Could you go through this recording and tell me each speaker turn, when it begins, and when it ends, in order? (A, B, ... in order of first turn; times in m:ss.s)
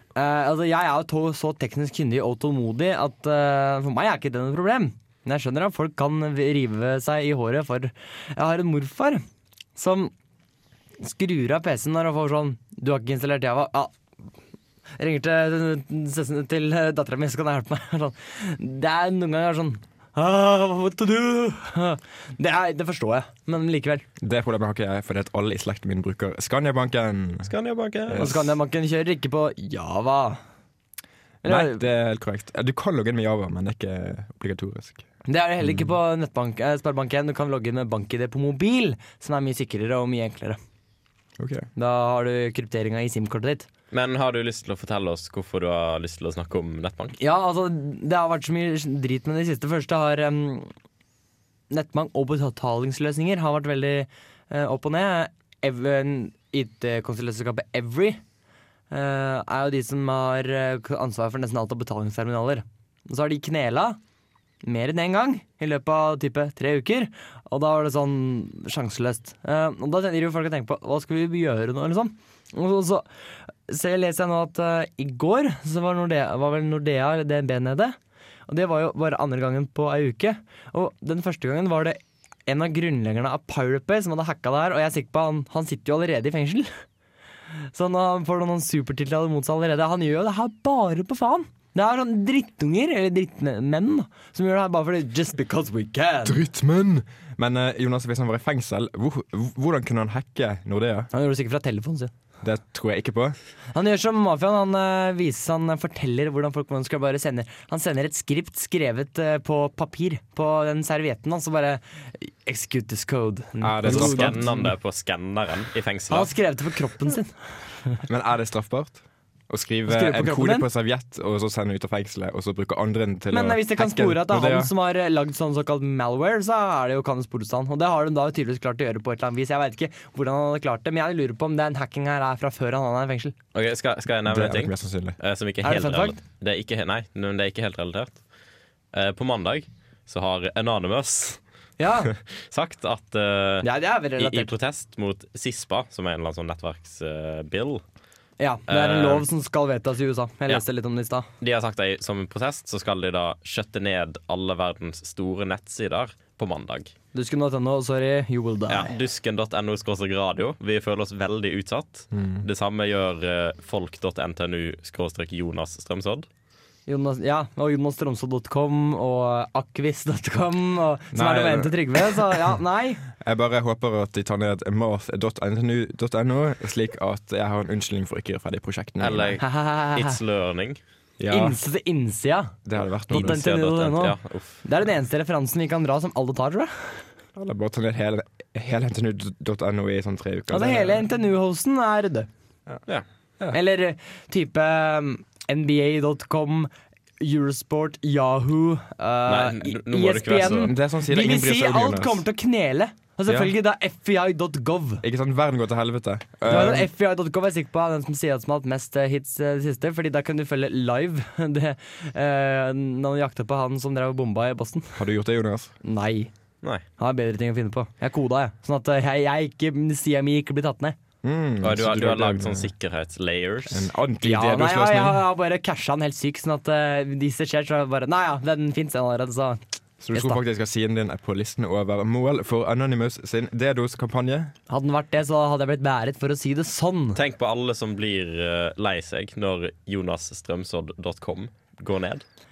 0:00.2-0:09.2 A
0:09.8-0:10.1 A
0:11.0-0:13.9 A
0:15.0-0:24.0 A
0:24.2-0:27.5 B
0:27.5-0:28.3 C
0:28.1-0:28.5 B
0:28.2-0:30.4 A
0:31.4-0:31.8 A
0:31.4-0:35.0 B
0:35.3-0:40.6 A
0:35.6-0:35.9 B
0:41.4-0:41.7 B
0:41.8-0:43.7 A
0:43.9-0:47.2 C
0:47.2-0:50.7 A
0:51.7-0:58.2 A
0:58.9-1:04.0 A
1:04.6-1:13.1 A
1:13.7-1:18.0 A
1:18.5-1:26.7 A
1:27.7-1:36.4 A
1:36.2-1:41.1 B
1:41.1-1:42.1 A
1:42.4-1:43.4 B
1:43.8-1:54.6 A
1:53.6-1:54.6 B
1:53.9-1:56.3 C
1:56.1-1:57.3 A
1:58.1-2:04.7 B
1:59.9-2:00.7 A
2:03.3-2:13.4 A
2:13.5-2:18.2 C
2:14.2-2:15.2 B
2:15.6-2:16.2 A
2:18.9-2:21.4 C
2:21.8-2:22.1 A
2:22.1-2:27.8 C
2:23.6-2:24.5 A
2:28.4-2:31.3 A
2:28.7-2:29.3 C
2:31.4-2:36.9 C
2:37.1-2:38.9 A
2:38.7-2:46.3 C
2:42.1-2:42.5 B
2:46.9-2:53.0 A
2:51.1-2:52.6 B
2:53.1-2:59.4 B
2:59.0-3:00.8 C
2:59.4-3:00.2 A
3:01.2-3:01.6 B
3:01.3-3:02.5 A
3:02.7-3:03.5 B
3:03.1-3:07.0 A
3:03.1-3:04.6 C
3:07.4-3:11.0 B
3:10.5-3:12.3 A
3:13.5-3:25.0 A
3:19.3-3:20.7 C
3:20.4-3:22.2 B
3:25.0-3:26.9 B
3:26.5-3:35.0 A
3:35.0-3:35.7 B
3:35.8-3:36.3 A
3:37.0-3:41.0 A
3:41.2-3:42.7 B
3:41.6-3:43.9 C
3:43.7-3:45.2 B
3:44.2-3:49.6 A
3:50.0-3:54.5 B
3:54.7-3:57.2 A
3:57.2-4:02.2 C